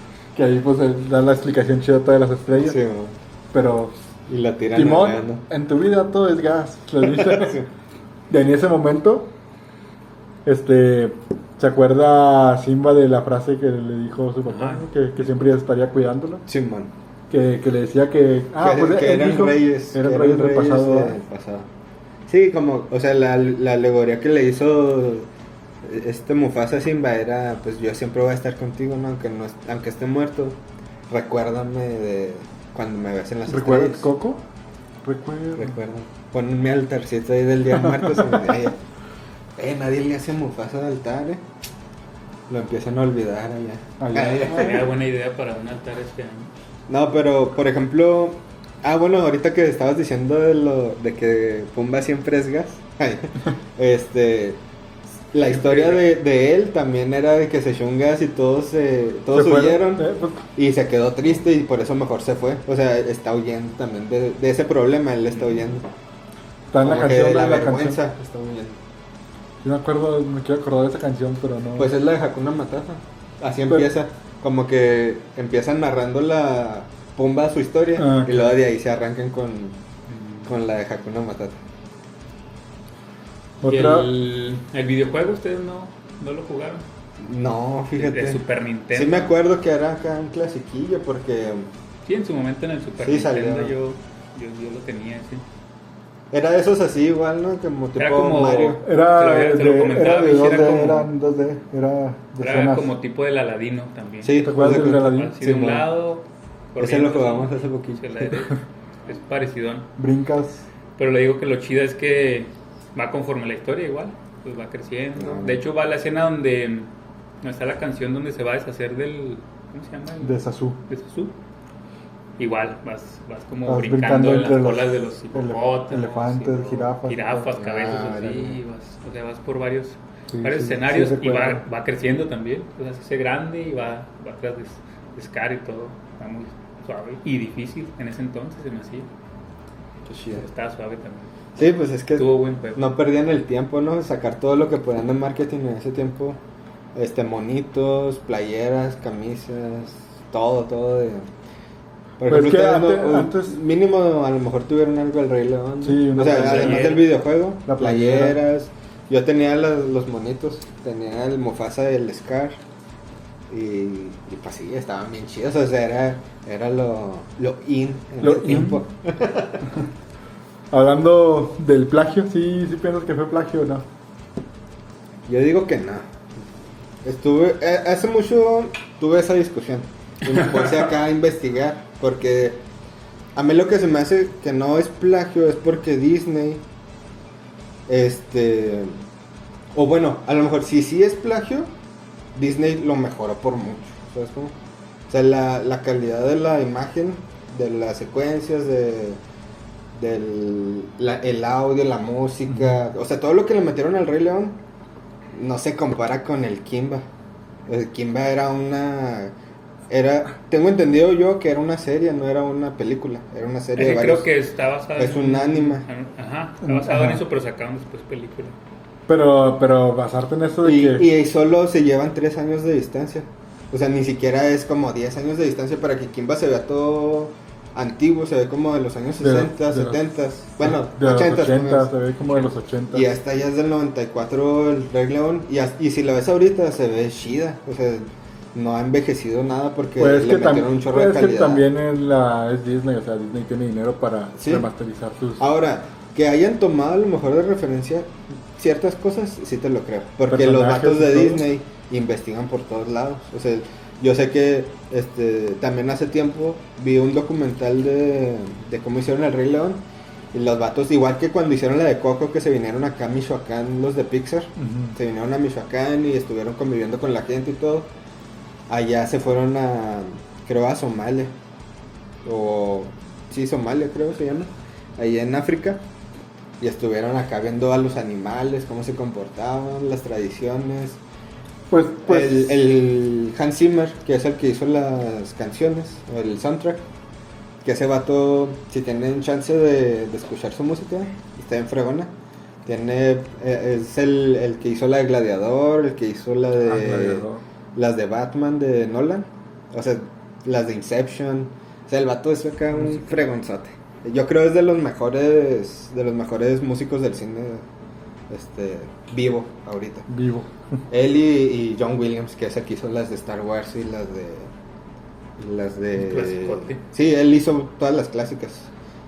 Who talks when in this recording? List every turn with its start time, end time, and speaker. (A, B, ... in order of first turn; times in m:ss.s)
0:00.3-0:02.8 A
0:02.6-0:03.1 B
0:03.5-0:03.9 A
0:04.3-0:05.4 B
0:04.7-0:07.6 A
0:07.0-0:07.7 B
0:08.3-0:09.3 A
0:10.4-0:16.4 A
0:14.5-0:14.8 C
0:16.4-0:16.9 B
0:17.3-0:21.2 A
0:18.6-0:21.7 B
0:22.3-0:25.3 B
0:25.8-0:30.6 B
0:31.1-0:34.1 B
0:33.5-0:34.4 A
0:35.0-0:35.8 A
0:35.6-0:38.8 B
0:37.8-0:38.3 A
0:39.6-0:41.4 B
0:42.5-0:44.9 B
0:44.0-0:44.8 A
0:44.4-0:46.5 C
0:46.9-0:54.6 B
0:55.3-1:05.9 B
0:55.4-0:56.0 C
0:59.3-1:00.4 A
1:06.7-1:08.0 A
1:06.8-1:08.8 B
1:09.6-1:11.9 A
1:11.8-1:19.8 B
1:18.0-1:18.5 A
1:20.1-1:20.5 C
1:20.4-1:21.6 B
1:23.6-1:24.1 A
1:23.6-1:26.8 C
1:27.2-1:31.7 B
1:28.0-1:29.3 C
1:32.0-1:35.4 C
1:33.0-1:33.7 B
1:36.3-1:38.8 B
1:38.0-1:41.1 C
1:38.8-1:42.9 A
1:42.4-1:49.9 C
1:44.2-1:45.9 B
1:44.4-1:45.4 A
1:46.8-1:48.3 B
1:50.0-1:50.6 A
1:51.0-1:56.9 C
1:55.2-1:55.6 B
1:57.4-2:01.4 C
2:00.2-2:00.8 A
2:02.4-2:19.1 C
2:03.6-2:07.5 A
2:07.5-2:08.6 B
2:10.3-2:11.6 A
2:20.1-2:20.4 B
2:20.3-2:21.3 C
2:21.6-2:26.4 B
2:22.2-2:22.9 C
2:26.9-2:31.3 B
2:32.2-2:42.6 B
2:32.2-2:33.6 A
2:35.8-2:37.0 A
2:36.2-2:37.1 C
2:37.7-2:38.4 A
2:43.5-2:49.8 B
2:48.2-2:48.8 A
2:50.7-2:53.9 A
2:55.3-2:56.0 B
2:57.0-3:02.6 B
3:03.3-3:06.6 B
3:07.9-3:09.0 B
3:09.7-3:11.7 B
3:12.3-3:14.5 B
3:15.1-3:19.2 B
3:19.9-3:24.6 B
3:22.5-3:22.8 A
3:25.3-3:27.0 B
3:27.7-3:29.3 B
3:29.9-3:34.3 B
3:33.8-3:38.5 C
3:35.0-3:35.8 B
3:36.6-3:37.2 A
3:39.1-3:41.0 A
3:40.6-3:51.9 B
3:49.2-3:50.0 A
3:50.6-3:53.1 A
3:52.9-4:01.6 B
4:00.0-4:05.4 A
4:04.3-4:04.7 B
4:05.4-4:27.9 B
4:10.3-4:11.4 A
4:24.6-4:25.0 A
4:28.7-4:31.3 B
4:32.2-4:35.8 B
4:36.6-4:41.0 B
4:41.7-4:42.6 A
4:42.0-4:46.8 B
4:47.6-4:52.1 B
4:52.6-5:07.6 B
4:56.6-4:57.4 A
5:02.7-5:03.1 A
5:08.3-5:10.1 B
5:10.1-5:10.5 A
5:10.9-5:14.5 B
5:15.4-5:18.7 B
5:16.0-5:16.8 C